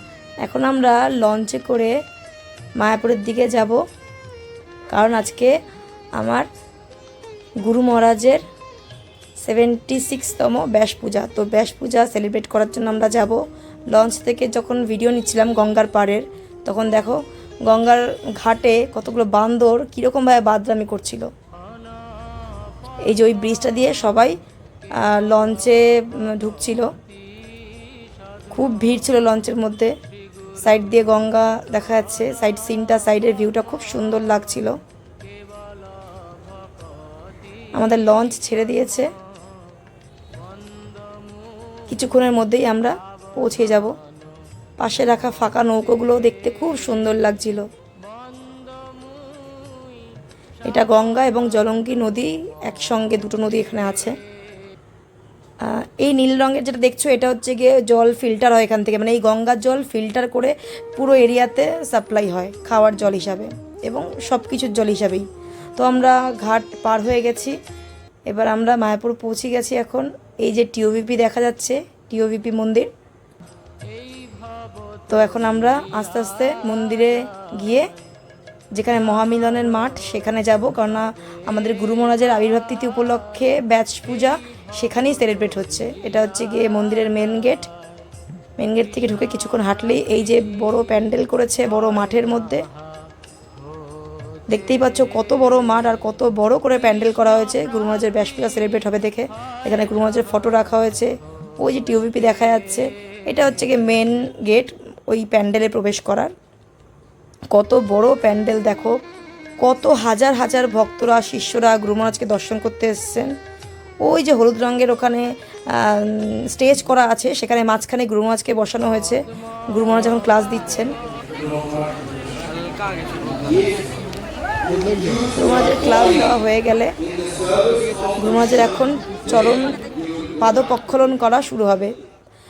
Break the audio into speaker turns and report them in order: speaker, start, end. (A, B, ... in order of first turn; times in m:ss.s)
0:00.4-0:01.9 A
0:02.8-0:03.8 A
0:04.9-0:05.5 A
0:06.2-0:06.5 A
0:07.6-0:08.4 A
0:09.4-0:21.3 A
0:23.0-0:24.3 A
0:24.9-0:26.9 A
0:28.5-0:29.9 A
0:30.6-0:34.8 A
0:37.7-0:39.1 A
0:41.9-0:43.9 A
0:44.8-0:47.7 A
0:50.6-0:54.2 A
0:55.6-1:07.6 A
1:08.3-1:12.9 A
1:15.1-1:17.9 A
1:18.7-1:27.7 A
1:28.6-1:32.6 A
1:34.5-1:46.3 A
1:47.5-1:49.0 A
1:49.6-1:53.4 A
1:54.0-2:00.9 A
2:05.4-2:06.9 A
2:08.2-2:09.7 A
2:10.4-2:11.9 A